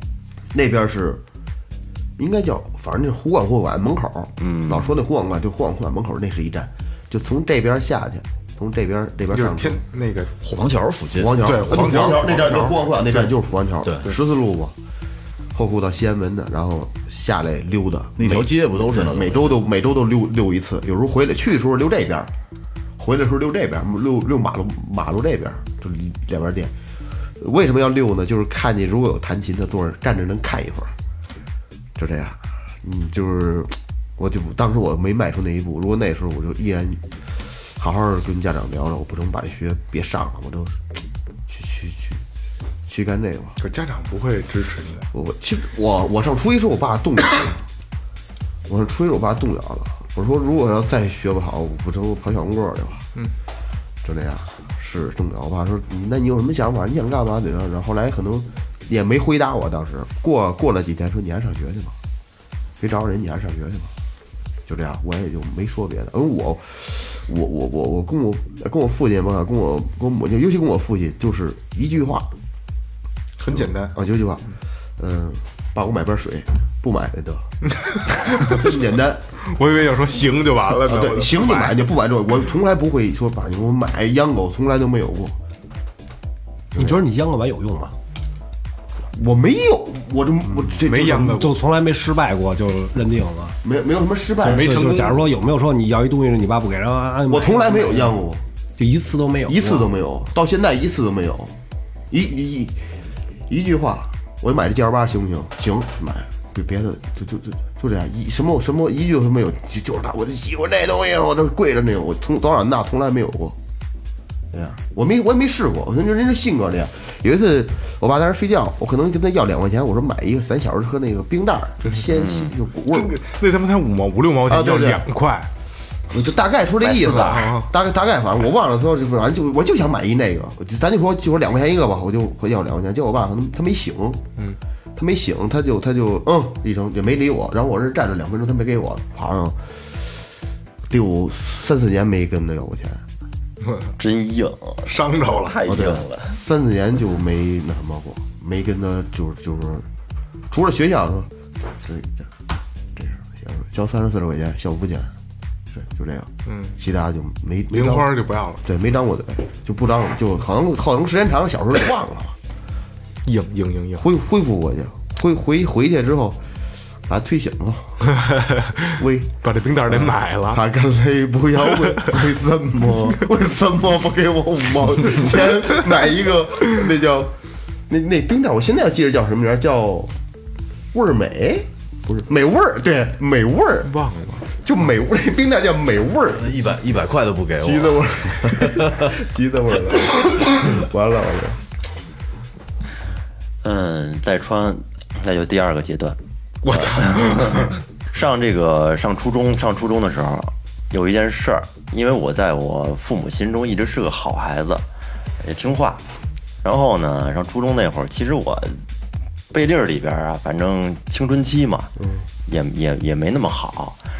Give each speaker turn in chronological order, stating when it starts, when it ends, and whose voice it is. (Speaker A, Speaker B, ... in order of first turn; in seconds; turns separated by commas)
Speaker A: 0.5-1.2, Speaker A: 2.2-9.8, Speaker B: 4.4-5.0, Speaker C: 9.3-10.3, Speaker D: 10.4-12.0, Speaker A: 11.2-14.7, Speaker C: 11.4-13.3, Speaker A: 15.5-22.3, Speaker D: 18.2-19.6, Speaker A: 23.0-26.7, Speaker A: 27.4-30.9, Speaker A: 32.0-40.8, Speaker A: 41.5-42.2, Speaker A: 42.9-43.6, Speaker C: 43.6-45.1, Speaker A: 45.1-47.6, Speaker A: 48.7-53.0, Speaker A: 54.0-62.0, Speaker A: 62.8-63.9, Speaker A: 64.7-72.3, Speaker C: 73.4-74.0, Speaker A: 73.5-74.4, Speaker A: 75.0-77.5, Speaker C: 77.8-78.6, Speaker A: 78.3-79.2, Speaker C: 79.5-81.9, Speaker A: 80.8-85.4, Speaker A: 86.7-87.0, Speaker E: 86.8-87.9, Speaker A: 89.1-91.4, Speaker C: 90.8-91.6, Speaker E: 91.3-93.6, Speaker A: 93.6-94.7, Speaker C: 94.4-95.3, Speaker E: 94.4-98.2, Speaker A: 97.3-98.4, Speaker E: 98.8-99.9, Speaker A: 99.5-101.5, Speaker A: 102.1-102.8, Speaker A: 103.5-113.6, Speaker A: 114.5-123.2, Speaker B: 122.1-122.5, Speaker C: 122.9-125.5, Speaker A: 124.5-125.1, Speaker A: 126.1-134.2, Speaker B: 126.8-127.5, Speaker C: 127.0-127.7, Speaker A: 134.9-140.0, Speaker A: 140.9-143.0, Speaker C: 143.6-143.9, Speaker B: 144.0-146.4, Speaker C: 144.9-145.6, Speaker A: 145.7-149.9, Speaker A: 150.5-152.3, Speaker A: 153.0-155.1, Speaker A: 155.7-162.4, Speaker C: 156.5-156.8, Speaker C: 157.7-158.6, Speaker C: 163.2-164.1, Speaker A: 164.0-166.4, Speaker A: 167.1-168.1, Speaker C: 168.0-170.6, Speaker A: 169.0-169.3, Speaker A: 169.9-177.3, Speaker C: 171.8-172.1, Speaker A: 177.9-180.1, Speaker A: 180.9-183.9, Speaker C: 183.8-184.5, Speaker A: 184.5-186.6, Speaker D: 186.4-189.1, Speaker A: 187.6-191.6, Speaker B: 193.6-204.8, Speaker C: 196.6-197.8, Speaker B: 205.4-206.0, Speaker B: 206.6-208.8, Speaker B: 209.5-211.9, Speaker A: 212.0-212.3, Speaker B: 212.5-214.0